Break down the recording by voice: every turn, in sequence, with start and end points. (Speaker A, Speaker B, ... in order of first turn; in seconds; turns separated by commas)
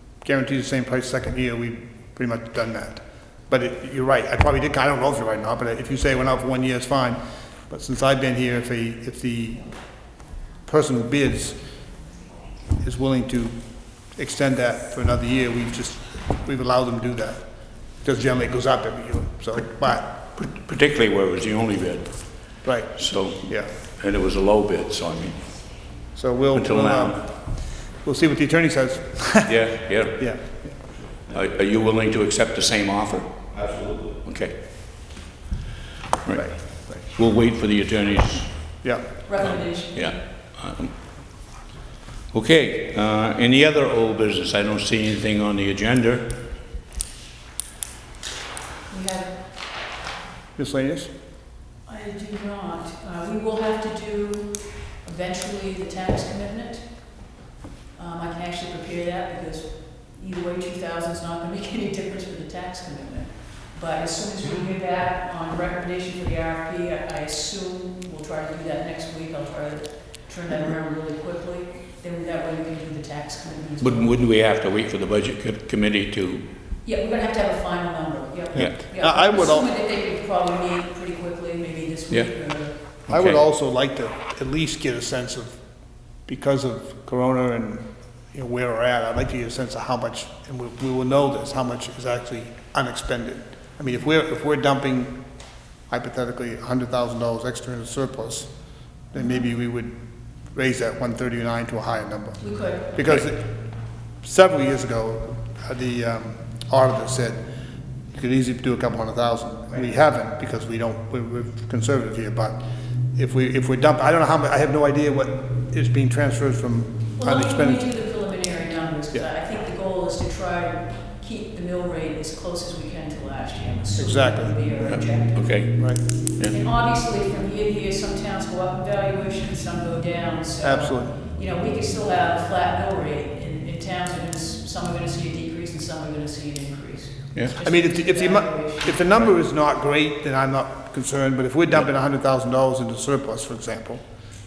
Speaker A: 0.2-11.7, Speaker A: 12.8-20.1, Speaker B: 20.3-25.6, Speaker A: 22.6-23.7, Speaker A: 26.1-30.9, Speaker B: 26.5-27.2, Speaker B: 29.4-30.3, Speaker B: 31.3-34.6, Speaker B: 36.2-41.0, Speaker A: 36.3-37.0, Speaker A: 38.8-39.1, Speaker C: 39.2-40.2, Speaker B: 42.3-46.4, Speaker C: 48.9-49.6, Speaker A: 50.5-51.1, Speaker C: 51.8-57.4, Speaker C: 57.9-74.2, Speaker B: 73.8-76.5, Speaker C: 76.8-82.9, Speaker A: 78.5-79.7, Speaker B: 82.1-83.4, Speaker A: 83.1-107.5, Speaker C: 102.4-103.3, Speaker A: 108.1-117.8, Speaker C: 117.2-139.0, Speaker A: 124.0-124.5, Speaker B: 124.8-126.5, Speaker A: 125.8-126.0, Speaker A: 130.6-131.1, Speaker A: 137.6-144.0